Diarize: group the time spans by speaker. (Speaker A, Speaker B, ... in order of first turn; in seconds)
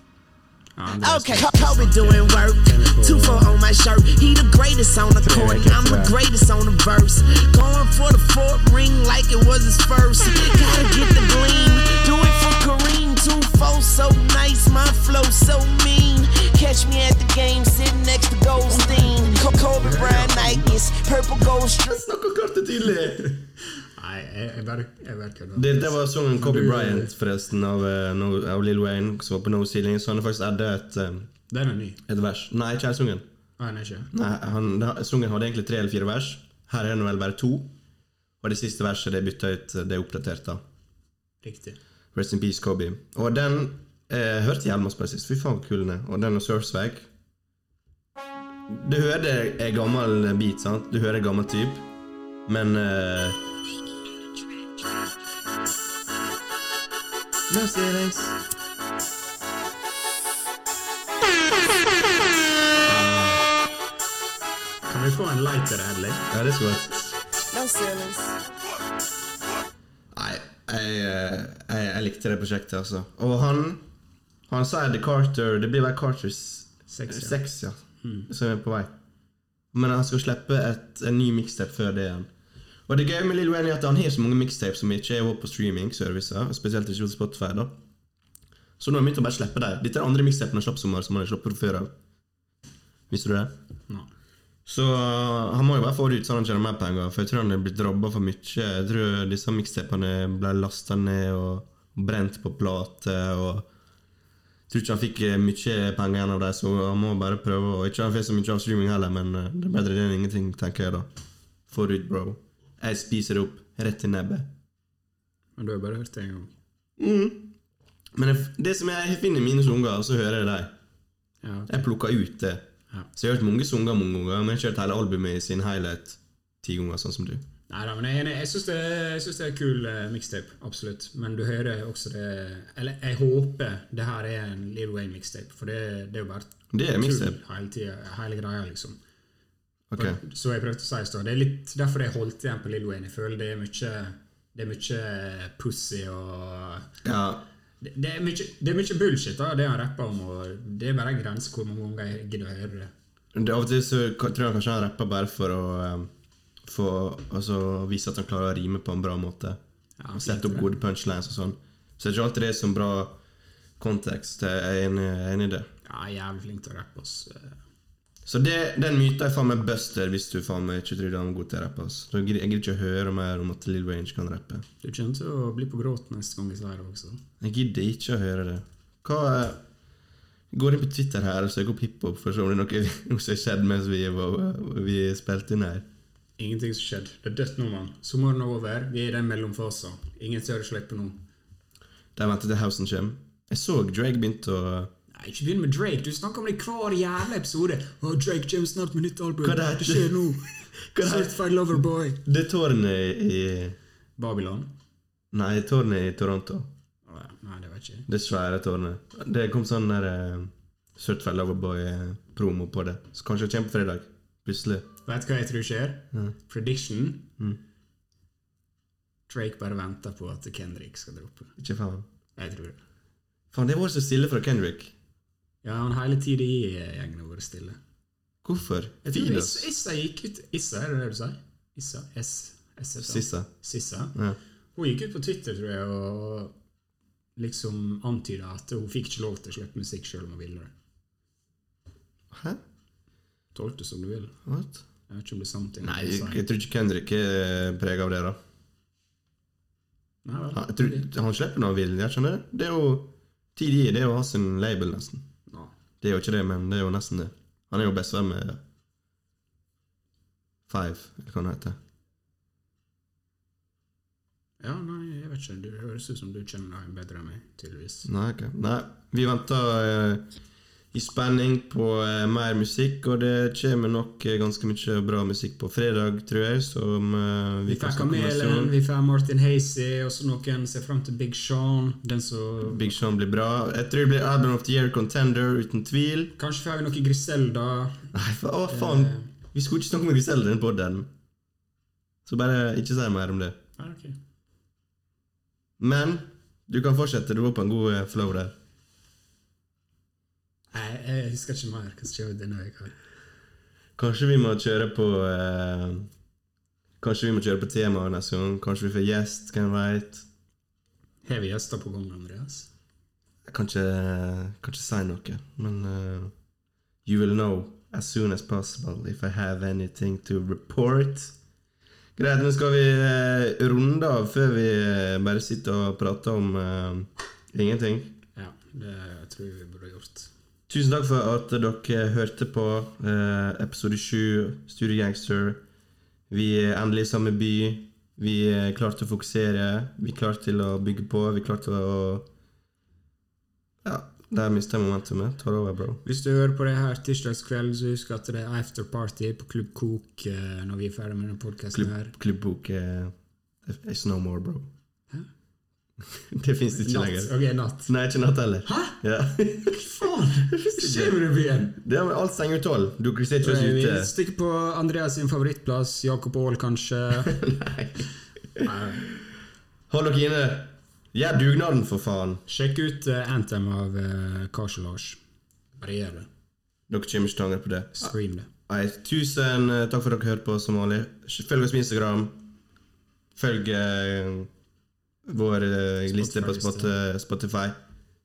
Speaker A: 0.8-3.5, 5.2-6.2, 18.7-20.8, 23.3-27.1, 31.5-32.0, 33.6-34.1, 41.4-41.8, 62.9-63.5, 64.9-66.3, 76.9-77.4, 115.6-116.6, 121.4-121.7, 127.7-139.0, 140.0-146.9, 147.8-152.9, 160.0-160.7, 165.8-167.6, 174.8-177.2, 186.4-191.2, 195.1-202.2, 204.2-204.7, 207.1-208.1, 215.1-217.3, 219.3-221.6, 222.4-222.8, 225.6-227.8, 229.0-234.2, 234.8-236.6, 237.4-240.7, 243.6-244.4, 245.1-246.4, 250.2-251.1, 255.5-255.7, 264.6-268.1, 277.7-283.0, 286.4-288.1, 288.7-289.3, 293.8-294.2, 300.7-302.9, 311.2-312.7, 328.4-330.3, 346.0-352.1, 356.7-357.9, 358.6-359.0, 359.6-361.8, 363.4-367.4, 368.6-369.1, 372.5-375.2, 375.8-376.3, 378.0-378.5, 386.1-386.9
Speaker B: 1.0-22.1, 67.5-68.4
Speaker C: 21.9-23.3, 25.6-31.3, 32.1-33.3, 34.1-37.7, 38.4-40.6, 42.1-47.1, 48.7-51.9, 52.5-53.4, 57.5-58.4, 66.3-66.9, 70.1-73.8, 74.5-78.9, 79.7-82.3, 82.9-87.8, 88.8-91.9, 93.1-93.6, 94.7-103.7, 104.7-111.1, 111.7-114.5, 117.0-117.5, 118.2-120.8, 121.7-127.5, 136.7-137.4, 139.9-140.2, 147.0-147.5, 153.3-156.1, 156.7-159.6, 160.1-163.2, 163.8-165.7, 168.2-174.7, 177.4-179.6, 180.5-185.9, 192.2-194.9, 199.4-201.4, 202.2-203.8, 205.3-206.7, 208.1-214.9, 221.6-222.1, 223.5-224.9, 228.4-229.7, 233.0-233.5, 242.3-242.6, 244.5-244.8, 245.8-248.4, 250.5-255.3, 256.0-258.6, 260.7-261.8, 268.1-270.3, 270.9-278.7, 282.6-286.4, 288.1-291.1, 292.3-293.6, 295.8-298.6, 304.0-306.1, 307.0-310.2, 313.5-316.3, 317.1-321.4, 322.2-328.2, 330.7-335.6, 336.3-342.3, 343.8-346.0, 351.7-354.7, 356.1-361.2, 361.8-364.1, 367.2-368.7, 369.9-372.4, 376.9-378.1, 378.7-382.5, 383.4-384.5, 385.2-387.8